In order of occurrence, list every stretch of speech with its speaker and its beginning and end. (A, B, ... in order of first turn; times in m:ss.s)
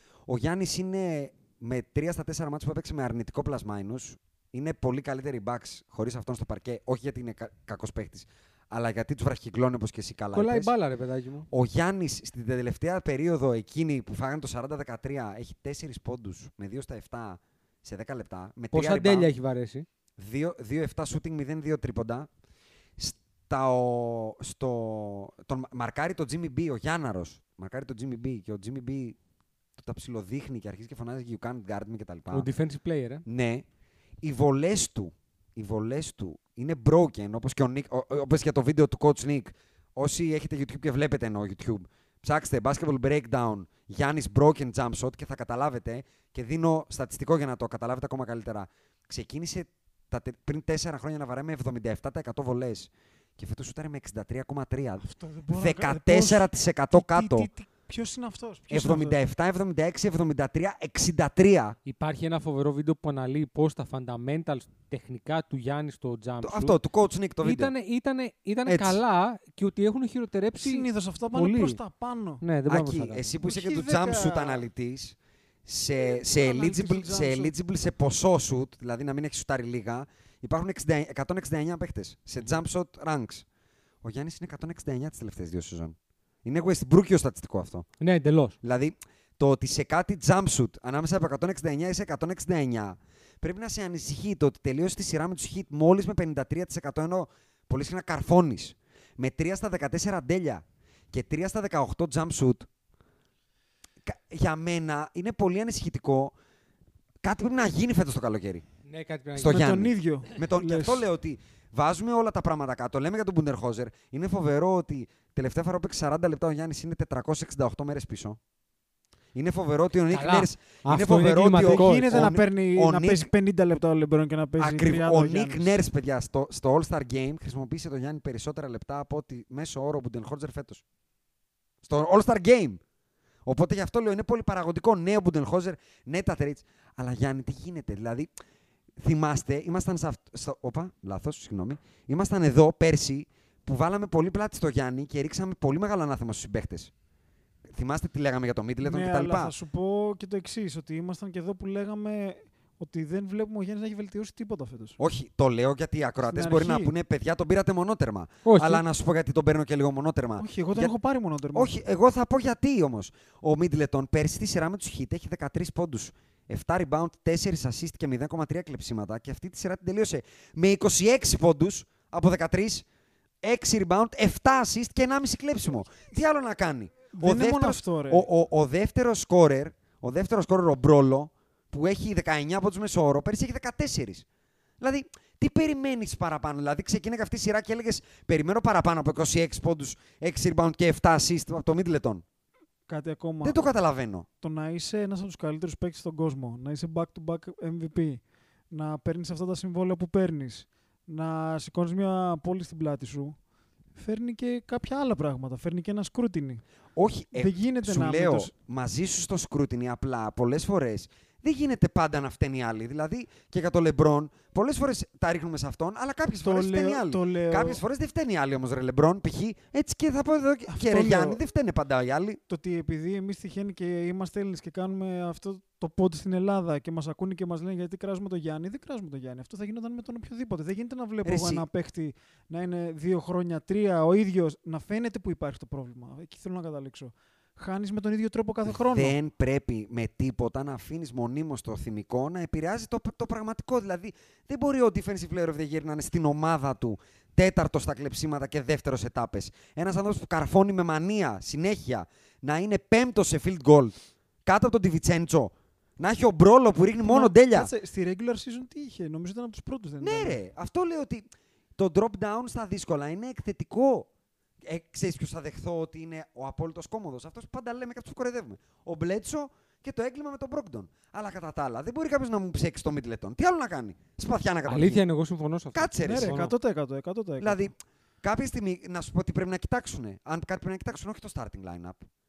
0:00.3-0:10.7 A
0:10.3-0:11.5 B
0:11.5-0:19.3 A
0:18.7-0:19.9 B
0:20.2-0:22.3 A
0:23.0-0:29.2 A
0:29.8-0:32.5 A
0:32.3-0:33.2 B
0:33.3-0:33.6 A
0:34.2-0:57.5 A
0:55.0-0:59.2 C
0:58.7-1:01.8 A
1:01.8-1:06.8 B
1:06.4-1:07.7 A
1:07.4-1:11.8 B
1:08.7-1:09.0 A
1:10.6-1:12.4 C
1:12.4-1:13.3 B
1:12.7-1:23.4 A
1:13.4-1:14.6 C
1:16.0-1:17.5 C
1:24.0-1:27.9 A
1:28.0-1:28.6 B
1:28.6-1:42.7 A
1:44.0-1:46.4 A
1:47.2-1:48.6 A
1:48.8-1:49.7 B
1:49.4-1:58.4 A
1:49.5-1:51.0 C
1:59.4-2:03.3 A
2:00.1-2:02.3 B
2:01.6-2:05.8 C
2:04.6-2:10.8 A
2:11.8-2:12.8 A
2:13.5-2:18.3 A
2:19.0-2:26.9 A
2:27.7-2:29.5 A
2:28.8-2:35.0 C
2:35.0-2:40.9 A
2:36.2-2:36.9 C
2:38.4-2:38.8 B
2:40.4-2:41.8 C
2:41.5-2:52.9 A
2:53.4-3:04.2 A
2:57.1-2:58.3 C
3:04.8-3:12.2 A
3:12.9-3:13.6 C
3:13.4-3:14.3 A
3:14.4-3:18.2 C
3:18.7-3:23.4 C
3:24.0-3:26.6 C
3:27.0-3:42.4 A
3:27.4-3:28.5 C
3:36.4-3:37.8 C
3:40.7-3:41.4 C
3:42.5-3:59.2 C
3:51.2-3:51.6 A
3:58.7-4:17.7 A
4:17.0-4:20.4 C
4:20.0-4:24.1 A
4:24.6-4:35.0 A
4:34.7-4:36.5 B
4:35.7-4:36.4 A
4:36.0-4:37.7 C
4:37.4-4:42.0 A